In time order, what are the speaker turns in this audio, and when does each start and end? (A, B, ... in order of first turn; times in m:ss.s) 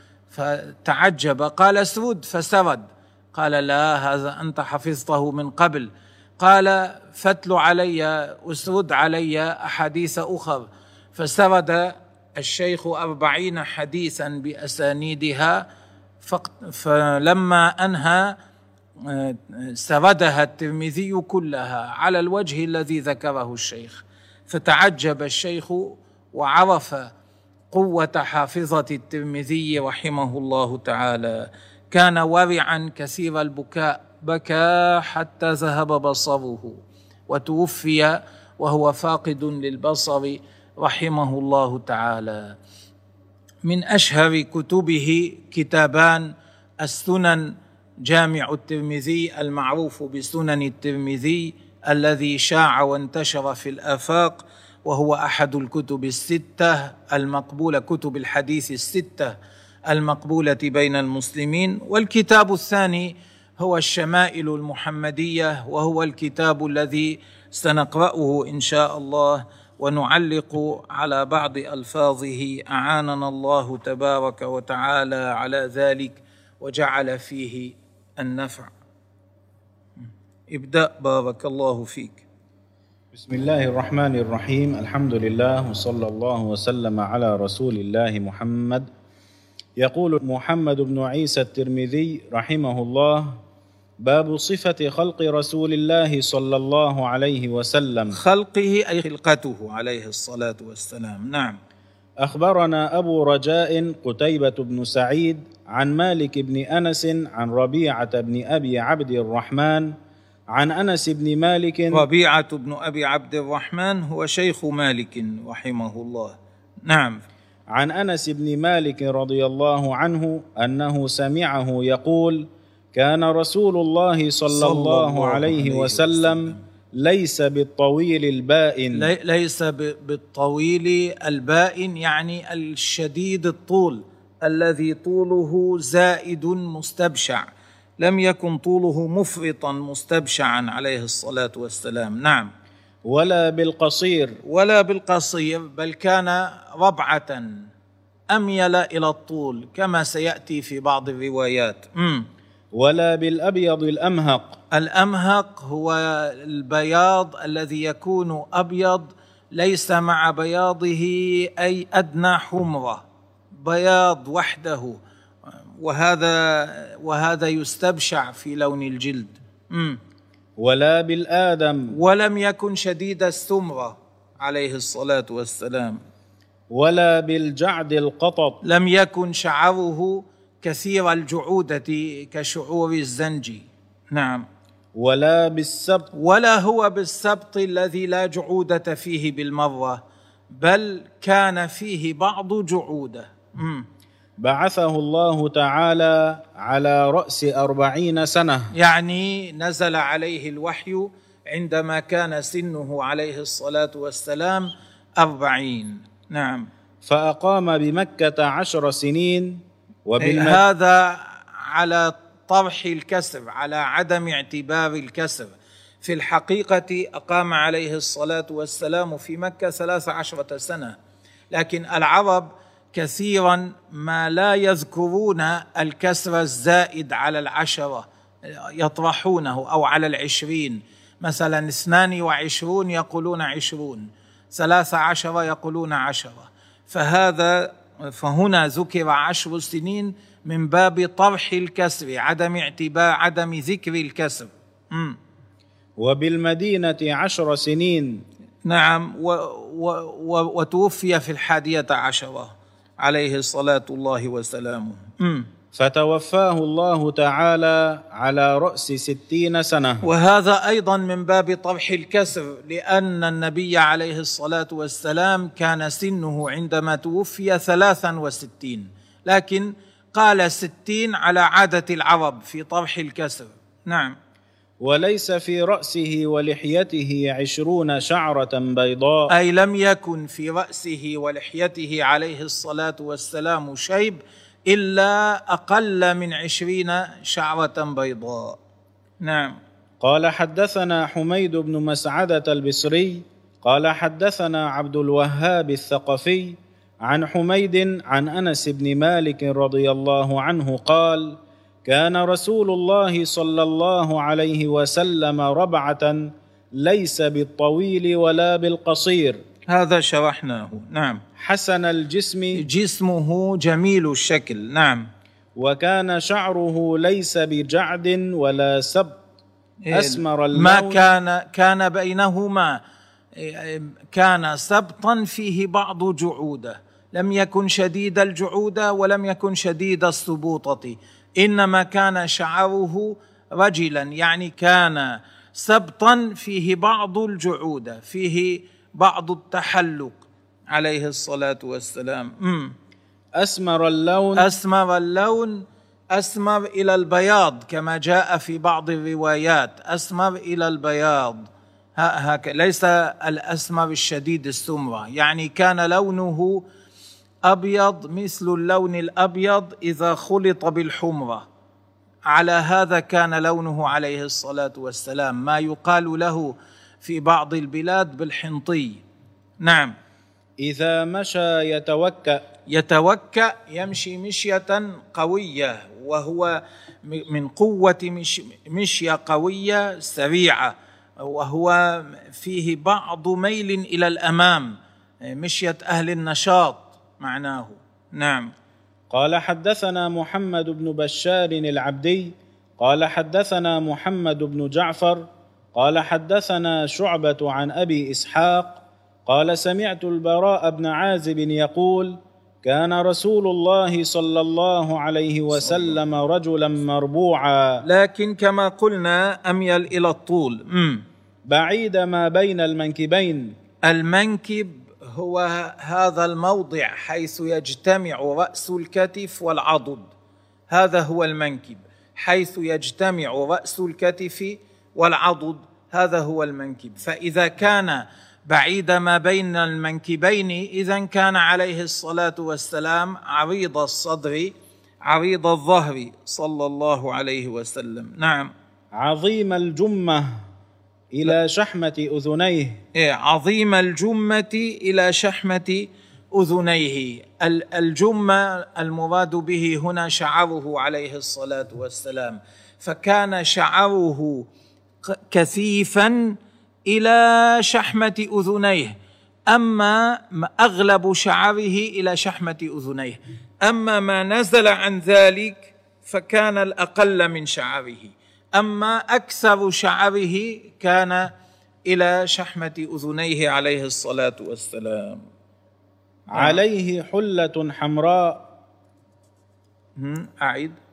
0:00.3-0:15.6 A
0:16.2-0:18.4 A
0:19.0-0:27.1 A
0:27.7-0:36.8 A
0:37.3-0:42.6 A
0:43.6-0:46.3 A
0:46.8-0:47.5 A
0:48.1-0:59.4 A
0:59.9-1:18.7 A
1:20.5-1:22.2 A
1:23.1-1:28.9 B
1:29.8-1:33.4 B
1:34.0-1:38.2 B
1:38.1-1:41.6 A
1:42.2-1:49.9 B
1:50.5-1:52.0 B
1:51.9-1:56.4 A
1:56.9-1:57.2 A
1:57.7-2:09.1 B
2:04.5-2:06.6 A
2:08.9-2:17.5 A
2:18.0-2:22.5 A
2:23.0-2:24.4 B
2:24.4-2:27.6 A
2:28.3-2:32.3 A
2:32.7-2:34.6 B
2:34.7-2:43.0 A
2:43.6-2:45.0 A
2:45.8-2:50.0 A
2:50.6-2:51.9 B
2:51.9-2:56.0 A
2:56.7-2:58.6 B
2:58.6-3:04.4 A
3:05.0-3:06.1 B
3:06.1-3:10.0 A
3:10.5-3:13.8 A
3:14.4-3:18.7 B
3:18.7-3:26.7 A
3:27.0-3:30.6 B
3:30.2-3:41.0 A
3:41.5-4:05.2 A
4:06.0-4:08.2 B
4:08.6-4:15.5 A
4:15.7-4:20.0 B
4:20.0-4:34.2 A
4:34.8-4:39.3 B
4:39.3-4:48.6 A
4:49.2-4:49.6 A
4:50.0-5:09.4 B
5:09.7-5:11.2 A
5:11.4-5:12.6 B
5:12.6-5:15.1 A
5:15.6-5:19.2 B
5:19.9-5:22.8 A
5:19.9-5:21.0 B
5:23.4-5:42.7 A
5:43.4-5:44.5 B
5:44.4-5:45.6 A
5:46.1-5:51.5 A
5:52.0-5:56.6 A
5:57.5-6:01.4 A
6:02.3-6:09.0 A
6:09.6-6:09.9 A
6:10.6-6:12.4 B
6:12.7-6:24.8 A
6:25.3-6:28.5 A
6:29.1-6:47.8 B
6:45.6-6:46.0 A
6:47.8-6:51.0 A
6:51.5-6:53.6 B
6:53.8-7:00.1 A
7:00.7-7:14.5 A
7:15.1-7:18.5 A
7:19.0-7:20.4 B
7:21.1-7:22.8 B
7:23.0-7:34.4 A
7:35.1-7:36.4 A
7:36.9-7:39.0 A
7:39.5-7:51.3 A
7:51.9-7:55.2 A
7:56.3-7:56.6 A
7:56.3-7:58.5 B
8:00.0-8:00.8 A